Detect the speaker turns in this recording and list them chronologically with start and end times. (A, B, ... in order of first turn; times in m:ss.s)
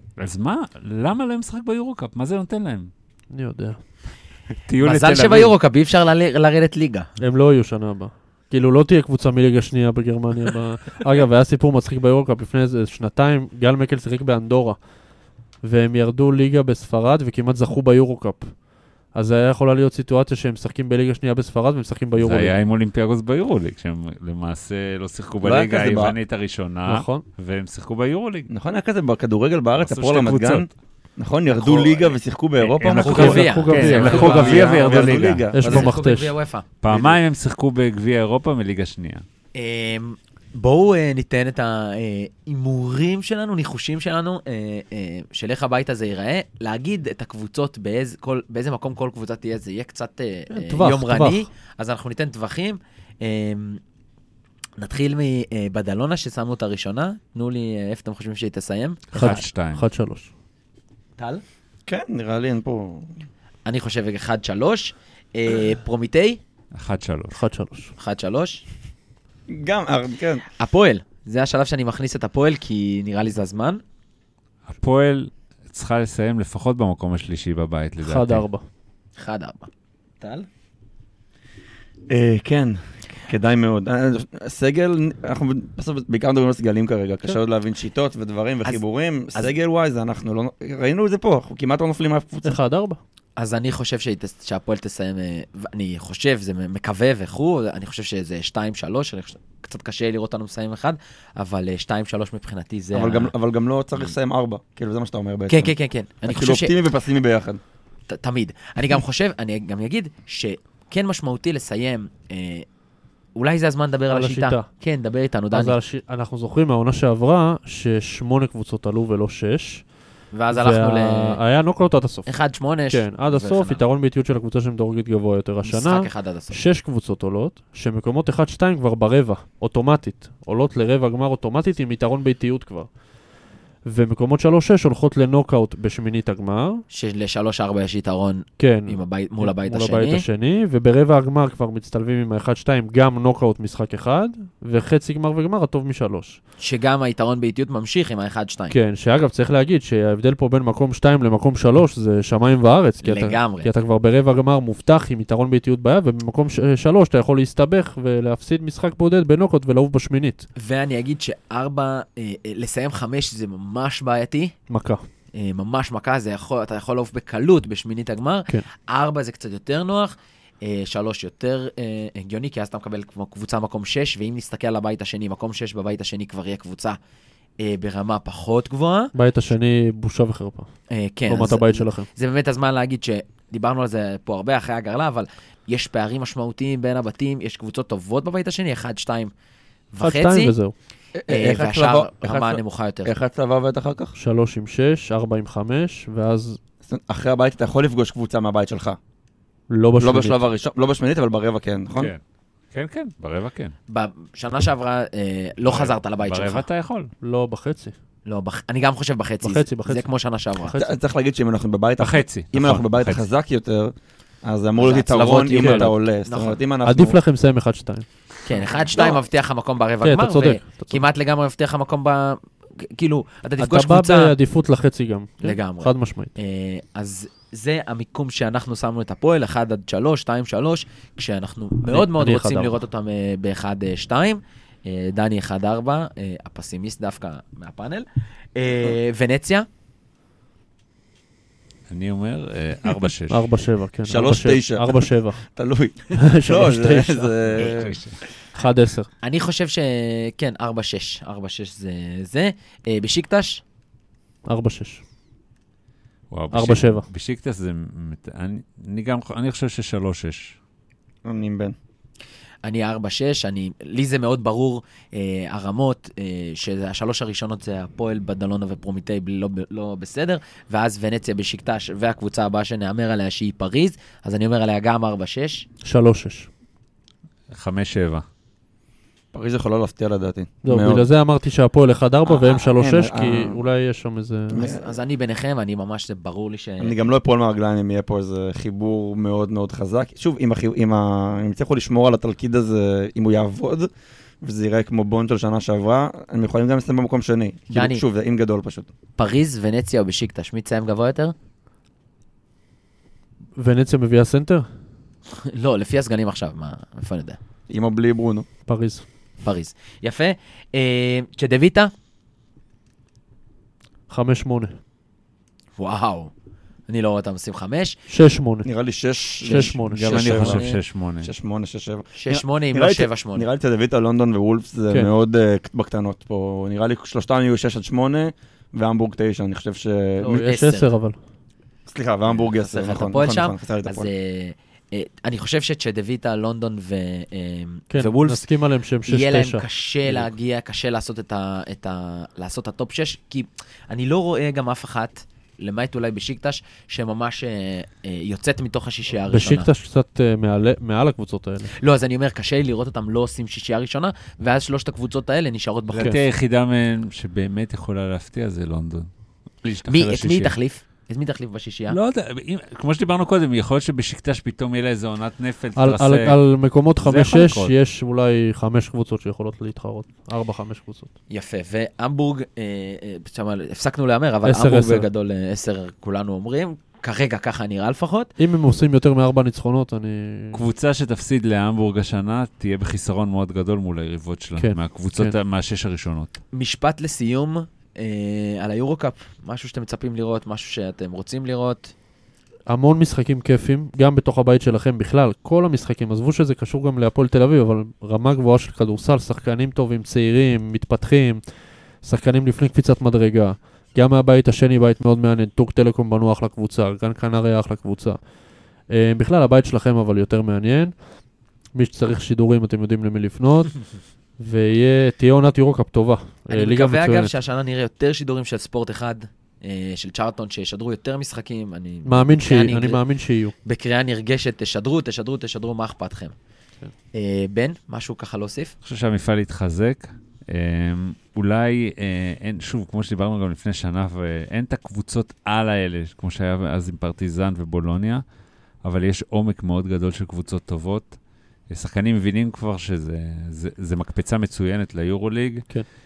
0:00.2-0:02.9 A
0:03.3-0:03.8 B
0:04.7-0:05.6 A
0:04.8-0:07.1 C
0:07.2-0:14.8 B
0:15.6-0:18.5 B
0:19.1-0:22.6 B
0:22.2-0:28.5 A
0:25.4-0:26.2 D
0:26.9-0:27.2 B
0:28.5-0:36.0 D
0:29.8-0:30.7 A
0:31.5-0:32.2 C
0:32.6-0:35.4 A
0:33.0-0:34.9 C
0:33.0-0:35.0 B
0:35.5-0:36.4 B
0:35.6-0:36.7 C
0:36.8-0:39.2 A
0:36.9-0:37.2 D
0:39.6-0:53.8 C
0:50.5-0:51.5 B
0:54.8-0:59.1 C
0:59.1-0:59.8 A
0:59.1-1:00.3 B
1:01.2-1:01.4 C
1:01.9-1:03.1 D
1:03.7-1:06.4 C
1:06.7-1:07.4 A
1:07.3-1:07.9 B
1:08.0-1:08.6 C
1:09.5-1:10.4 D
1:10.6-1:13.8 C
1:14.7-1:18.4 A
1:18.0-1:18.6 B
1:19.2-1:19.7 C
1:20.2-1:20.5 C
1:22.1-1:32.6 D
1:32.4-1:33.0 B
1:33.4-1:43.3 C
1:42.9-1:45.7 D
1:45.5-1:46.8 C
1:46.2-1:47.6 D
1:48.1-1:52.7 C
1:53.4-1:55.8 C
1:54.1-1:54.7 B
1:55.5-1:59.9 B
2:00.3-2:01.4 C
2:00.5-2:02.3 B
2:02.3-2:03.8 C
2:02.9-2:12.9 B
2:05.6-2:06.6 C
2:13.8-2:16.8 B
2:16.9-2:20.2 C
2:18.6-2:26.4 B
2:26.6-2:28.7 C
2:28.7-2:40.5 B
2:33.0-2:33.7 C
2:40.6-2:44.6 C
2:44.7-2:45.0 B
2:45.4-2:57.0 C
2:57.6-2:59.1 C
2:59.1-3:00.7 B
3:00.9-3:09.3 C
3:01.3-3:02.1 B
3:09.9-3:10.5 C
3:10.0-3:10.7 B
3:11.2-3:14.1 D
3:11.3-3:13.2 C
3:14.2-3:16.6 B
3:16.9-3:19.0 D
3:19.7-3:20.4 B
3:20.0-3:22.1 D
3:22.7-3:23.7 A
3:23.9-3:26.7 C
3:25.6-3:27.1 A
3:27.2-3:28.0 B
3:28.3-3:30.8 C
3:29.4-3:30.1 B
3:30.6-3:30.9 B
3:30.7-3:37.2 D
3:32.0-3:33.3 A
3:34.8-3:36.6 C
3:35.6-3:35.9 B
3:36.8-3:38.1 B
3:38.4-3:44.4 C
3:40.0-3:41.0 B
3:43.6-3:46.3 B
3:45.4-3:59.7 C
3:51.8-3:52.8 B
4:01.9-4:03.4 A
4:03.3-4:05.4 B
4:04.1-4:08.0 D
4:06.1-4:07.6 B
4:07.6-4:08.2 A
4:08.6-4:09.1 B
4:09.2-4:13.6 C
4:14.4-4:15.0 B
4:16.3-4:20.6 A
4:16.5-4:17.1 B
4:21.2-4:21.7 D
4:22.6-4:35.7 C
4:35.8-4:36.5 B
4:37.5-4:38.2 A
4:39.3-4:41.1 D
4:40.6-4:44.7 B
4:42.3-4:43.6 D
4:44.5-4:44.8 D
4:44.6-4:47.0 C
4:46.8-4:53.9 D
4:54.4-4:58.9 D
4:57.7-4:58.0 C
4:59.2-5:01.3 C
5:03.6-5:04.7 B
5:05.3-5:07.4 C
5:07.7-5:08.4 D
5:08.7-5:09.0 B
5:09.4-5:11.9 C
5:14.1-5:14.8 B
5:15.8-5:16.3 C
5:16.9-5:18.0 C
5:18.1-5:18.7 B
5:18.6-5:30.4 D
5:19.4-5:19.7 C
5:19.4-5:20.6 B
5:19.9-5:21.3 A
5:22.2-5:23.5 C
5:30.2-5:30.9 C
5:30.2-5:31.2 B
5:31.9-5:34.1 D
5:32.3-5:38.5 C
5:37.9-5:40.3 B
5:39.1-5:49.7 C
5:49.3-5:51.7 B
5:51.7-5:56.2 C
5:55.9-5:59.1 A
5:59.6-6:00.6 A
5:59.9-6:02.0 C
6:01.9-6:06.4 A
6:05.8-6:11.1 B
6:07.0-6:07.7 A
6:11.3-6:18.3 C
6:14.4-6:15.1 B
6:18.4-6:20.6 B
6:20.5-6:26.4 A
6:24.6-6:25.3 B
6:26.5-6:31.9 C
6:32.7-6:41.4 B
6:42.0-6:48.2 B
6:48.9-6:50.9 B
6:51.7-6:57.3 B
6:56.5-7:03.0 C
7:02.0-7:03.5 B
7:03.6-7:06.4 C
7:07.1-7:08.7 C
7:08.8-7:18.2 A
7:18.8-7:21.2 A
7:21.7-7:25.7 A